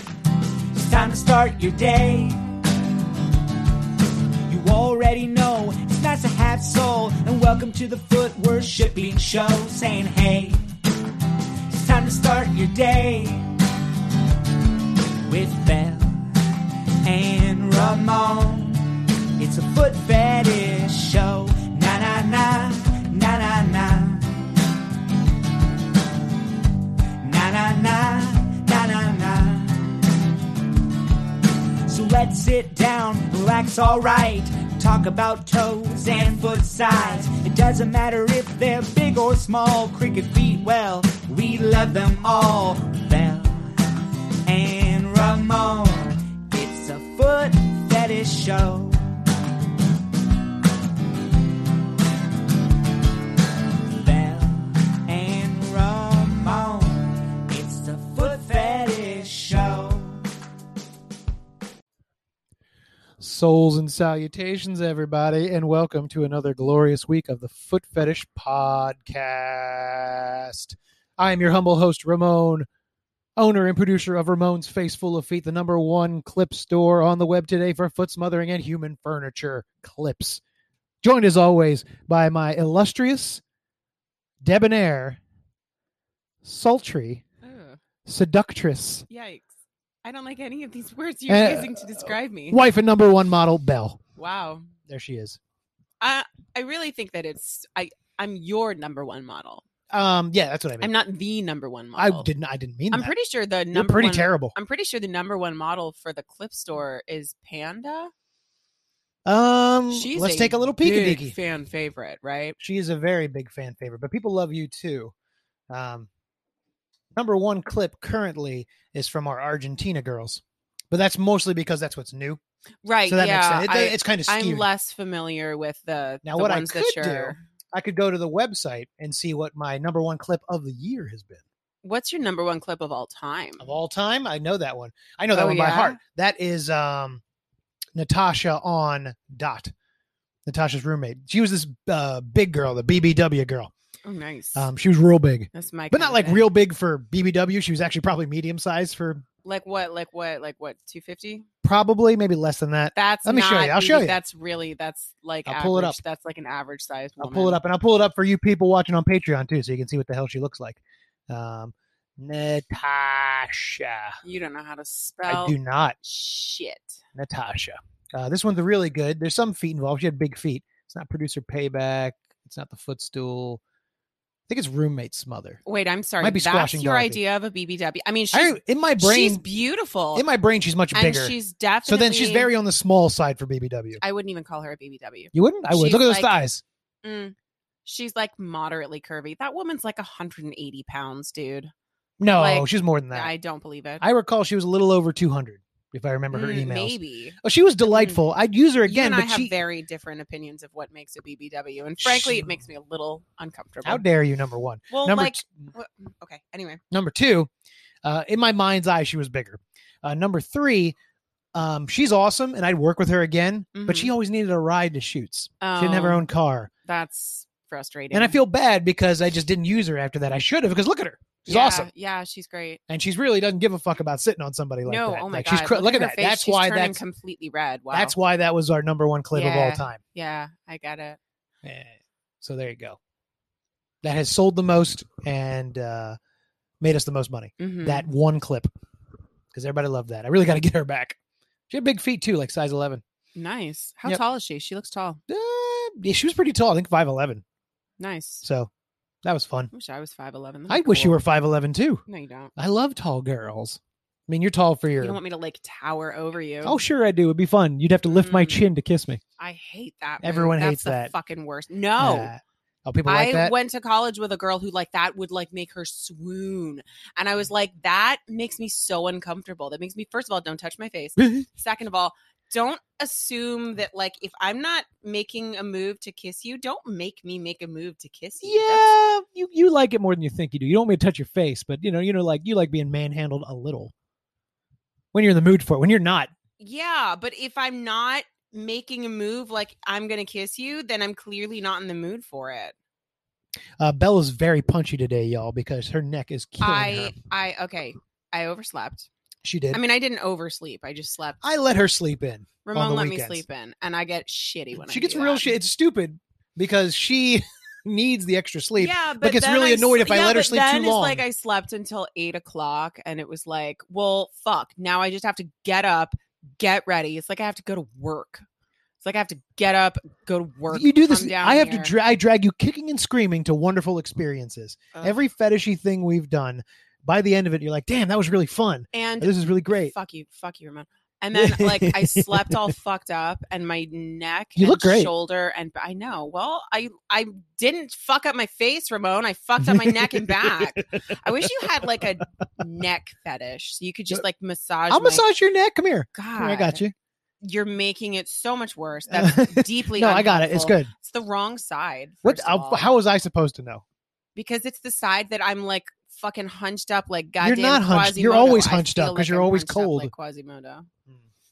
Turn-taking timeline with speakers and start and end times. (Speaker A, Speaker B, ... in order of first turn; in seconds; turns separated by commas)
Speaker A: 0.7-2.4, Speaker A: 4.5-10.7, Speaker A: 11.7-13.5, Speaker A: 15.3-16.3, Speaker A: 17.0-24.5, Speaker A: 27.2-30.1, Speaker A: 31.9-43.7, Speaker A: 44.5-49.0, Speaker A: 53.9-60.2, Speaker B: 63.2-72.7, Speaker B: 73.4-80.4, Speaker B: 81.0-83.4, Speaker B: 84.4-85.2, Speaker B: 86.4-87.2, Speaker C: 87.4-87.8, Speaker B: 88.0-89.0, Speaker C: 89.1-89.5, Speaker C: 90.0-92.6, Speaker B: 91.3-94.0, Speaker C: 94.2-94.7, Speaker B: 94.9-95.4, Speaker C: 96.0-99.6, Speaker B: 99.9-100.9, Speaker C: 100.8-102.3, Speaker B: 102.0-103.1, Speaker C: 102.9-108.1, Speaker B: 103.7-104.5, Speaker B: 109.2-111.3, Speaker C: 109.9-112.6, Speaker B: 112.6-115.1, Speaker B: 115.7-116.1, Speaker B: 117.1-122.4, Speaker C: 122.8-127.4, Speaker B: 123.1-124.7, Speaker B: 126.2-131.4, Speaker C: 131.8-133.7, Speaker B: 133.6-137.2, Speaker C: 135.3-136.0, Speaker B: 137.9-139.7, Speaker B: 140.4-143.7, Speaker C: 144.0-144.7, Speaker B: 144.5-149.2, Speaker C: 145.5-146.4, Speaker C: 149.4-151.4, Speaker B: 151.6-154.2, Speaker C: 152.9-157.6, Speaker B: 155.4-156.0, Speaker B: 157.2-164.2, Speaker C: 164.2-167.0, Speaker B: 165.3-165.9, Speaker B: 167.1-173.6, Speaker B: 174.5-175.6, Speaker C: 175.7-180.2, Speaker B: 176.2-177.2, Speaker B: 178.3-179.4, Speaker B: 180.1-181.3, Speaker C: 180.9-182.5, Speaker B: 181.8-184.0, Speaker C: 184.0-186.4, Speaker B: 185.3-186.6, Speaker C: 187.0-191.7, Speaker B: 192.2-193.3, Speaker C: 192.3-194.0, Speaker B: 194.0-199.5, Speaker C: 196.3-198.2, Speaker C: 198.8-204.0, Speaker B: 202.0-202.6, Speaker B: 203.8-205.6, Speaker C: 204.9-206.8, Speaker B: 206.9-207.5, Speaker B: 208.0-210.9, Speaker B: 211.5-216.7, Speaker C: 213.7-214.1, Speaker C: 215.6-216.2, Speaker C: 216.8-218.4, Speaker B: 218.1-221.9, Speaker C: 221.5-222.8, Speaker B: 222.9-227.0, Speaker C: 224.8-228.1, Speaker B: 227.9-230.0, Speaker C: 229.3-231.2, Speaker B: 231.6-233.0, Speaker B: 234.0-236.2, Speaker B: 236.8-238.7, Speaker C: 237.6-238.1, Speaker B: 239.5-241.2, Speaker B: 241.7-243.0, Speaker C: 243.3-245.2, Speaker B: 245.3-247.4, Speaker C: 248.0-248.4, Speaker B: 248.4-248.7, Speaker B: 249.2-249.7, Speaker C: 249.7-251.2, Speaker B: 250.7-252.0, Speaker C: 252.1-252.5, Speaker B: 252.6-255.2, Speaker C: 255.0-256.8, Speaker B: 256.6-259.2, Speaker C: 258.1-258.6, Speaker C: 259.4-262.3, Speaker B: 260.2-261.1, Speaker B: 262.0-263.5, Speaker C: 263.1-278.9, Speaker B: 278.4-283.9, Speaker B: 285.1-286.3, Speaker C: 286.6-292.7, Speaker B: 293.8-297.1, Speaker C: 296.6-299.1, Speaker B: 299.4-299.8, Speaker C: 299.7-301.4, Speaker B: 301.4-303.4, Speaker C: 302.6-305.5, Speaker B: 304.8-311.2, Speaker C: 308.8-318.4, Speaker C: 319.0-321.9, Speaker B: 320.7-329.9, Speaker C: 324.9-325.2, Speaker C: 328.9-345.2, Speaker B: 331.3-332.7, Speaker B: 334.6-335.1, Speaker B: 339.6-340.9, Speaker B: 341.6-341.9, Speaker B: 344.9-346.9, Speaker C: 346.1-346.8, Speaker C: 347.4-352.9, Speaker B: 349.1-350.9, Speaker B: 352.2-353.8, Speaker C: 354.4-360.9, Speaker B: 357.4-360.1